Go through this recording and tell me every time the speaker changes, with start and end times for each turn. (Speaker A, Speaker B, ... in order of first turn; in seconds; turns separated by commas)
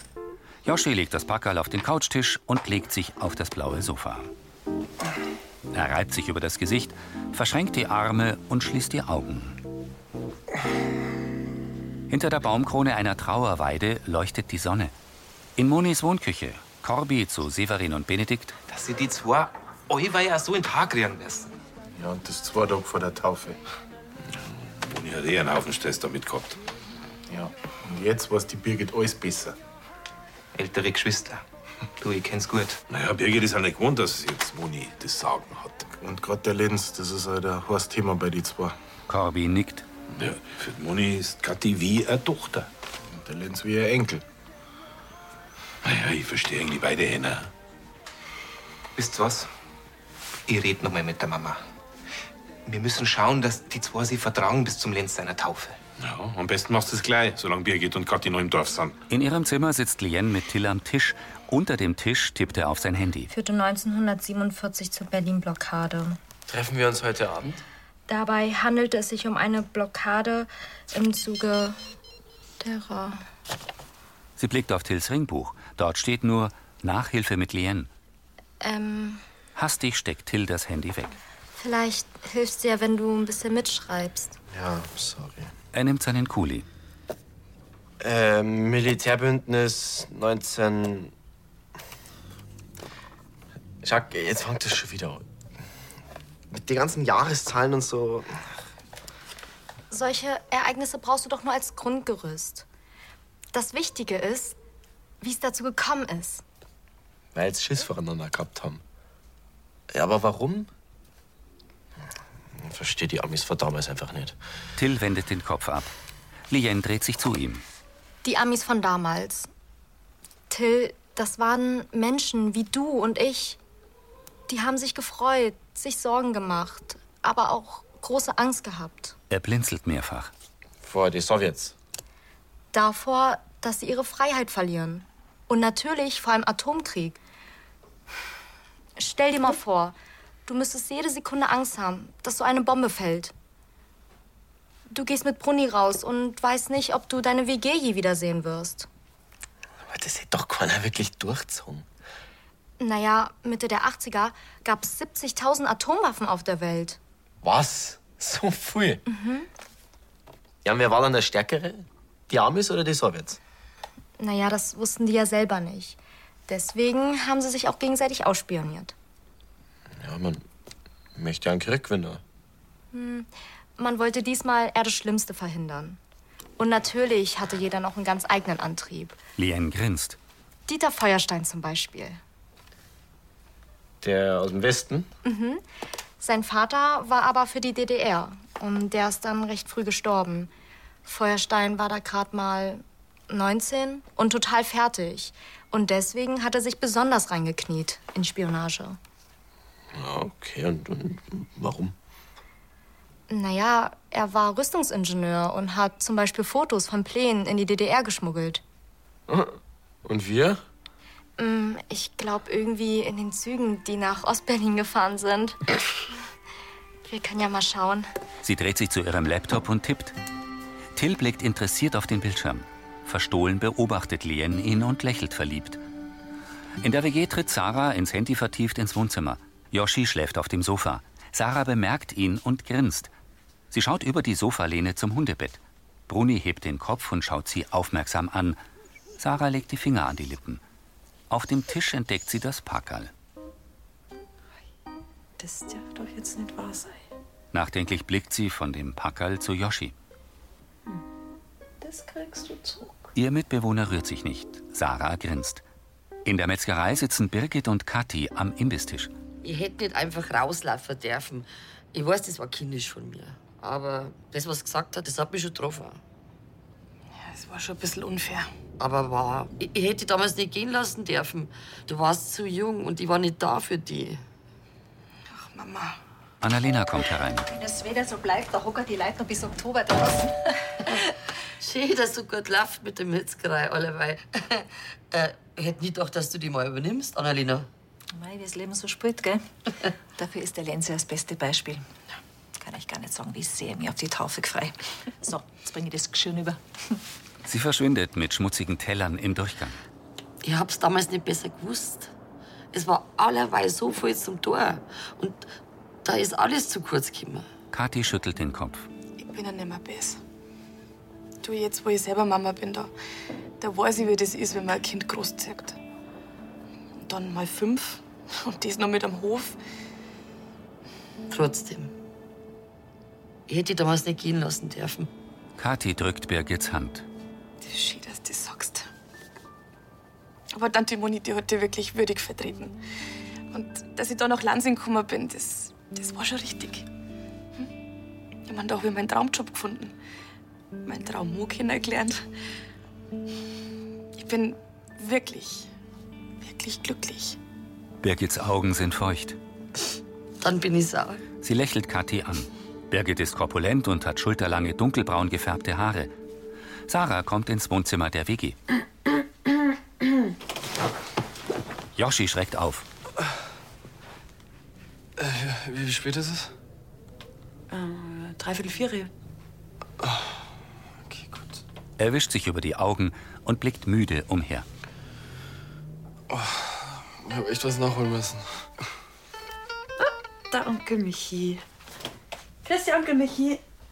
Speaker A: 0.6-4.3, Speaker A: 5.7-9.6, Speaker A: 12.1-14.9, Speaker A: 15.6-18.6, Speaker B: 18.7-21.5, Speaker C: 21.9-23.6, Speaker D: 24.8-26.6, Speaker C: 27.3-29.6, Speaker B: 30.5-31.4, Speaker B: 32.0-32.8, Speaker D: 32.9-35.9, Speaker C: 36.0-38.8, Speaker A: 39.1-39.9, Speaker D: 40.1-42.7, Speaker C: 43.1-44.2, Speaker D: 45.8-47.5, Speaker B: 49.0-49.5, Speaker B: 50.5-51.6, Speaker B: 52.6-55.8, Speaker D: 56.0-59.0, Speaker A: 59.1-63.3, Speaker E: 63.3-66.2, Speaker F: 66.5-67.6, Speaker E: 68.1-71.8, Speaker E: 72.6-73.2, Speaker A: 74.4-77.9, Speaker E: 78.6-79.2, Speaker A: 79.5-81.1, Speaker E: 81.5-84.4, Speaker F: 84.5-85.5, Speaker A: 85.7-86.7, Speaker F: 88.0-91.1, Speaker F: 93.8-95.2, Speaker F: 96.5-98.4, Speaker E: 99.9-102.6, Speaker E: 103.5-104.5, Speaker E: 105.2-106.4, Speaker F: 107.3-108.8, Speaker F: 109.9-110.7, Speaker F: 112.5-114.3, Speaker A: 114.8-115.9, Speaker A: 116.5-117.6, Speaker E: 118.2-119.5, Speaker E: 120.5-123.6, Speaker E: 124.5-129.1, Speaker A: 129.3-130.3, Speaker F: 130.8-131.7, Speaker E: 132.7-137.2, Speaker E: 139.0-143.3, Speaker E: 144.9-148.9, Speaker F: 149.8-151.8, Speaker E: 152.8-157.0, Speaker F: 157.4-159.0, Speaker E: 159.1-159.5, Speaker F: 160.6-163.4, Speaker E: 164.2-168.9, Speaker F: 170.0-170.4, Speaker F: 171.2-172.2, Speaker E: 172.9-176.0, Speaker E: 176.6-179.2, Speaker A: 179.4-180.2, Speaker E: 180.7-182.2, Speaker F: 184.0-185.1, Speaker E: 185.2-185.6, Speaker E: 186.2-190.5, Speaker E: 191.0-199.0, Speaker F: 199.9-201.9, Speaker E: 203.3-208.6, Speaker F: 209.3-209.5, Speaker F: 210.0-210.6, Speaker E: 211.4-215.6, Speaker E: 217.1-218.1, Speaker A: 218.4-220.1, Speaker A: 220.9-225.8, Speaker A: 226.8-233.1, Speaker A: 233.7-238.6, Speaker A: 239.2-240.6, Speaker A: 241.3-243.1, Speaker G: 245.4-247.0, Speaker A: 247.5-249.9, Speaker G: 251.8-253.0, Speaker A: 253.1-255.6, Speaker A: 256.2-259.1, Speaker H: 259.4-266.0, Speaker I: 267.1-268.5, Speaker H: 268.8-274.2, Speaker I: 275.3-276.0, Speaker A: 276.4-277.5, Speaker J: 277.5-280.4, Speaker H: 281.6-287.7, Speaker J: 288.1-289.4, Speaker J: 290.2-291.8, Speaker J: 292.6-296.6, Speaker A: 297.4-299.8, Speaker H: 300.4-302.1, Speaker H: 302.7-305.5, Speaker H: 306.0-307.5, Speaker A: 307.7-308.9, Speaker I: 309.2-310.2, Speaker I: 311.4-312.9, Speaker I: 313.6-315.8, Speaker I: 317.0-319.6, Speaker H: 321.3-321.9, Speaker H: 323.5-325.1, Speaker A: 325.6-327.1, Speaker I: 327.6-328.9, Speaker I: 330.5-332.7, Speaker I: 333.5-336.8, Speaker I: 338.5-339.9, Speaker I: 340.8-342.2, Speaker I: 344.2-345.7, Speaker I: 346.4-347.4, Speaker A: 348.0-349.4, Speaker H: 350.4-351.2, Speaker A: 351.4-356.1, Speaker A: 356.9-358.6, Speaker A: 361.9-362.9, Speaker K: 365.2-366.5, Speaker G: 367.7-369.1, Speaker K: 370.0-370.3, Speaker K: 371.1-371.6, Speaker A: 372.0-374.7, Speaker K: 376.3-378.6, Speaker G: 380.0-381.6, Speaker G: 382.6-383.6